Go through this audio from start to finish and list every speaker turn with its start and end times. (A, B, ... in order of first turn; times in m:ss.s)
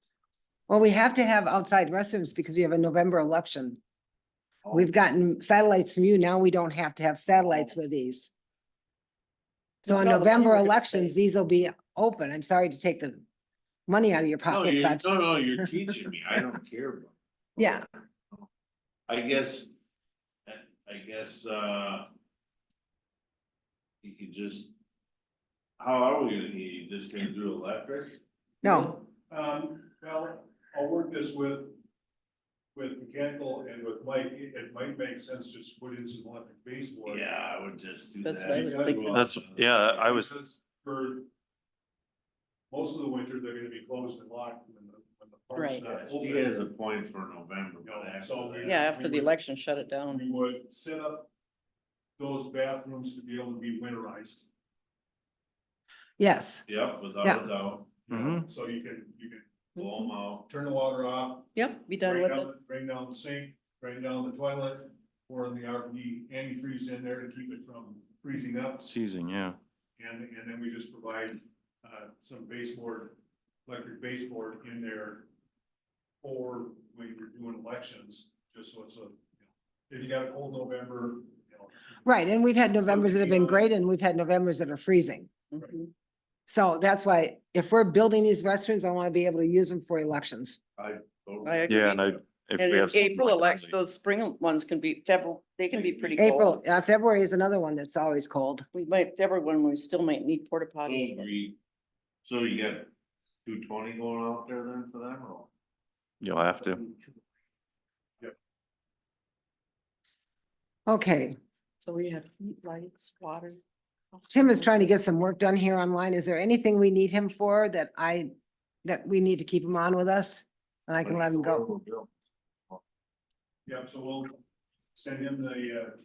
0:00.7-0:03.8 A
0:04.6-0:04.9 B
0:04.7-0:08.3 A
0:09.8-0:13.2 A
0:09.8-0:11.1 C
0:13.9-0:15.1 A
0:14.5-0:18.4 B
0:17.6-0:17.8 A
0:19.1-0:19.7 B
0:20.4-0:22.1 B
0:24.0-0:24.7 B
0:25.8-0:28.2 B
0:28.6-0:29.0 A
0:29.3-0:31.8 D
0:32.7-0:37.2 D
0:37.1-0:39.9 B
0:38.2-0:39.2 C
0:38.5-0:39.3 D
0:39.1-0:40.3 E
0:39.9-0:41.3 D
0:42.7-0:46.7 D
0:45.6-0:45.8 C
0:45.9-0:48.8 B
0:47.8-0:49.4 D
0:48.6-0:50.2 C
0:50.1-0:51.3 D
0:52.2-0:54.4 D
0:56.2-0:56.6 A
0:56.6-0:57.9 B
0:58.1-0:59.4 D
0:58.1-0:58.4 E
0:59.8-1:00.5 B
1:00.4-1:08.9 D
1:01.5-1:02.5 C
1:08.8-1:09.6 E
1:10.0-1:15.3 D
1:16.2-1:21.8 D
1:22.0-1:25.3 A
1:22.9-1:23.6 D
1:25.5-1:25.9 C
1:26.5-1:30.6 A
1:30.8-1:32.2 B
1:31.4-1:31.9 C
1:31.7-1:33.7 E
1:32.6-1:36.6 C
1:35.9-1:36.2 B
1:36.2-1:38.6 A
1:38.7-1:41.3 C
1:40.8-1:41.6 B
1:42.2-1:42.9 B
1:43.4-1:45.5 B
1:46.2-1:46.8 E
1:50.9-1:51.3 A
1:51.8-1:53.6 C
1:54.1-1:54.9 C
1:54.3-1:58.3 A
1:58.8-2:01.6 A
2:01.0-2:02.1 B
2:03.6-2:04.4 D
2:04.9-2:06.0 D